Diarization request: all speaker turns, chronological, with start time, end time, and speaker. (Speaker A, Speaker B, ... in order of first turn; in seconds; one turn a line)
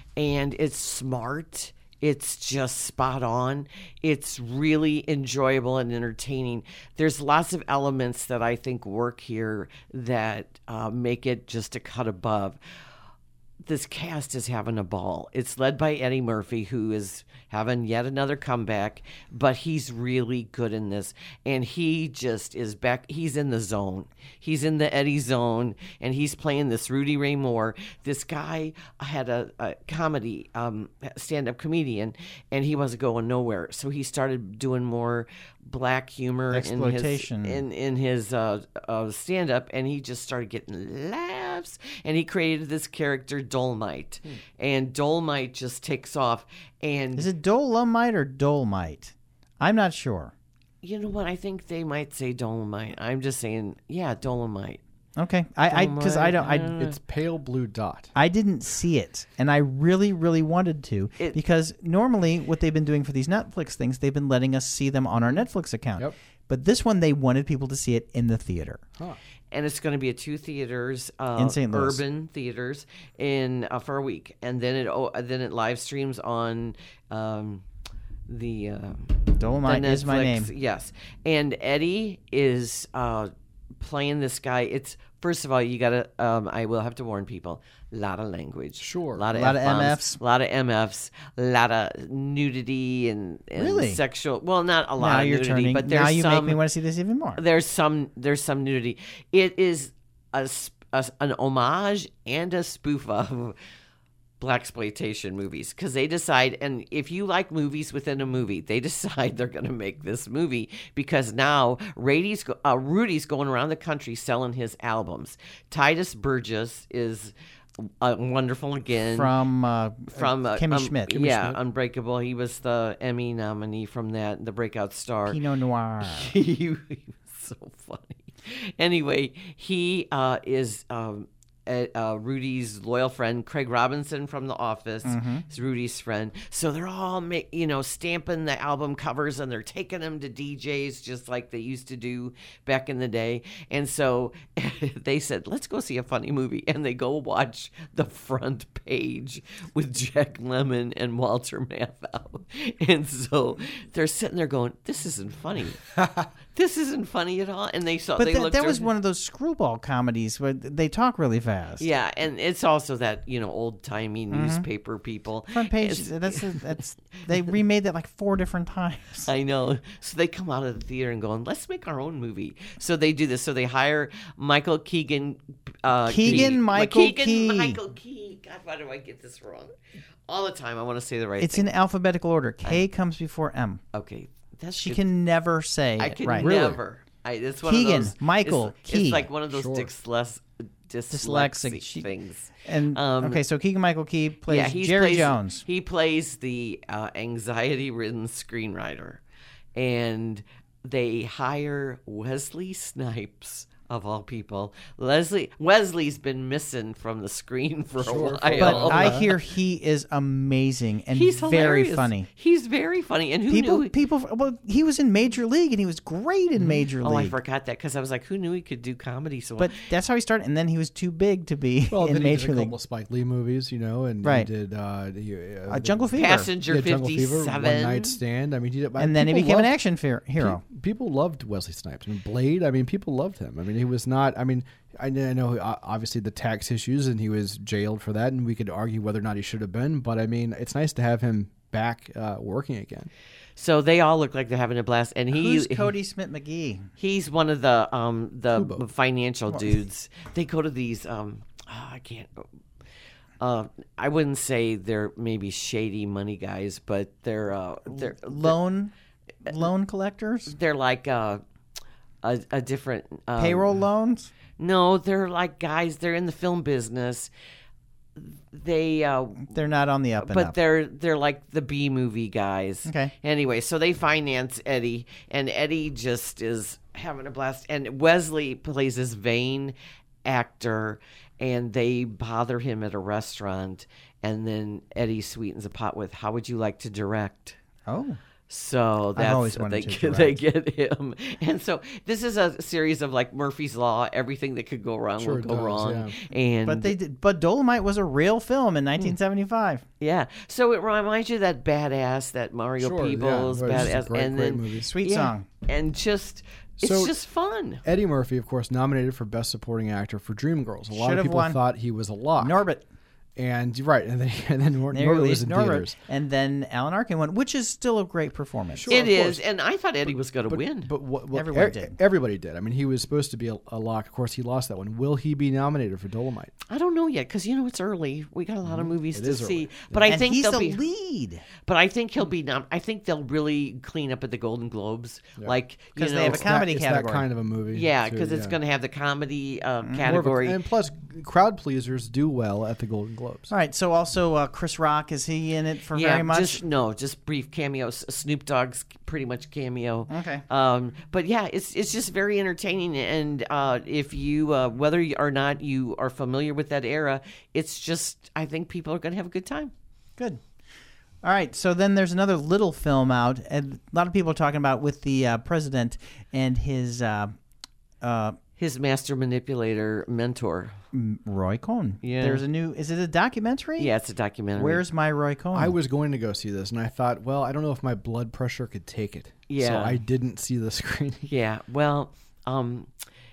Speaker A: 0.1-12.6
Speaker A: 13.6-47.3
Speaker B: 36.5-37.6
Speaker B: 47.1-50.3
Speaker A: 50.8-54.8
Speaker B: 55.2-56.8
Speaker A: 55.7-57.0
Speaker C: 56.8-58.1
Speaker B: 58.1-68.8
Speaker A: 69.5-77.6
Speaker B: 71.3-72.0
Speaker A: 78.3-96.6
Speaker B: 79.4-80.5
Speaker C: 88.8-89.2
Speaker B: 89.3-90.2
Speaker B: 93.5-94.0
Speaker B: 95.0-97.4
Speaker A: 97.4-103.5
Speaker A: 104.4-119.3
Speaker B: 119.0-121.5
Speaker A: 120.1-125.4
Speaker B: 125.3-126.3
Speaker A: 126.0-155.9
Speaker B: 135.0-135.4
Speaker A: 156.5-158.9
Speaker B: 158.2-161.8
Speaker A: 161.8-166.8
Speaker B: 164.3-164.7
Speaker B: 165.5-169.3
Speaker A: 169.3-179.7
Speaker B: 176.1-177.8
Speaker C: 176.2-176.5
Speaker A: 180.3-181.7
Speaker B: 181.4-183.8
Speaker A: 183.9-185.0
Speaker B: 184.7-186.5
Speaker A: 186.0-193.4
Speaker C: 186.3-186.8
Speaker B: 187.7-189.3
Speaker C: 189.5-189.9
Speaker B: 191.1-192.1
Speaker B: 192.6-195.6
Speaker A: 194.5-199.2
Speaker A: 199.7-209.4
Speaker C: 208.0-209.3
Speaker B: 208.6-212.3
Speaker A: 211.1-213.9
Speaker B: 213.5-217.4
Speaker A: 216.6-219.8
Speaker B: 219.6-222.7
Speaker C: 221.9-229.7
Speaker B: 224.2-224.5
Speaker B: 225.7-226.5
Speaker A: 226.2-228.2
Speaker B: 229.0-230.6
Speaker C: 230.4-243.1
Speaker A: 243.6-245.9
Speaker B: 245.3-246.9
Speaker A: 247.0-252.4
Speaker C: 248.5-248.8
Speaker B: 249.5-249.7
Speaker A: 253.4-258.6
Speaker B: 257.9-258.9
Speaker B: 259.4-260.5
Speaker A: 260.5-261.4
Speaker A: 262.2-263.8
Speaker B: 263.4-264.3
Speaker A: 264.6-267.3
Speaker A: 268.1-269.5
Speaker B: 269.5-270.6
Speaker A: 270.2-287.6
Speaker B: 272.9-273.1
Speaker B: 287.9-288.2
Speaker A: 288.5-296.9
Speaker B: 289.1-290.4
Speaker C: 295.2-296.1
Speaker B: 296.6-299.8
Speaker A: 300.0-307.8
Speaker C: 302.8-304.9
Speaker B: 304.8-305.4
Speaker C: 306.8-307.1
Speaker C: 307.8-312.6
Speaker B: 310.9-311.6
Speaker B: 312.4-312.8
Speaker C: 313.4-315.9
Speaker B: 314.9-318.9
Speaker C: 318.7-319.4
Speaker A: 318.9-320.9
Speaker C: 320.5-326.5
Speaker B: 321.3-321.9
Speaker A: 326.7-330.8
Speaker C: 328.6-330.2
Speaker B: 330.1-331.4
Speaker A: 331.6-336.5
Speaker B: 335.9-337.2
Speaker C: 336.2-338.6
Speaker A: 337.7-340.6
Speaker C: 340.0-343.5
Speaker B: 343.5-346.6
Speaker A: 345.9-359.7
Speaker B: 350.1-350.4
Speaker B: 361.2-367.3
Speaker B: 368.0-368.4
Speaker A: 368.6-370.7
Speaker B: 370.9-373.9
Speaker A: 372.0-372.4
Speaker A: 373.8-374.8
Speaker B: 374.6-375.8
Speaker C: 375.5-381.3
Speaker A: 379.5-380.0
Speaker A: 381.3-382.9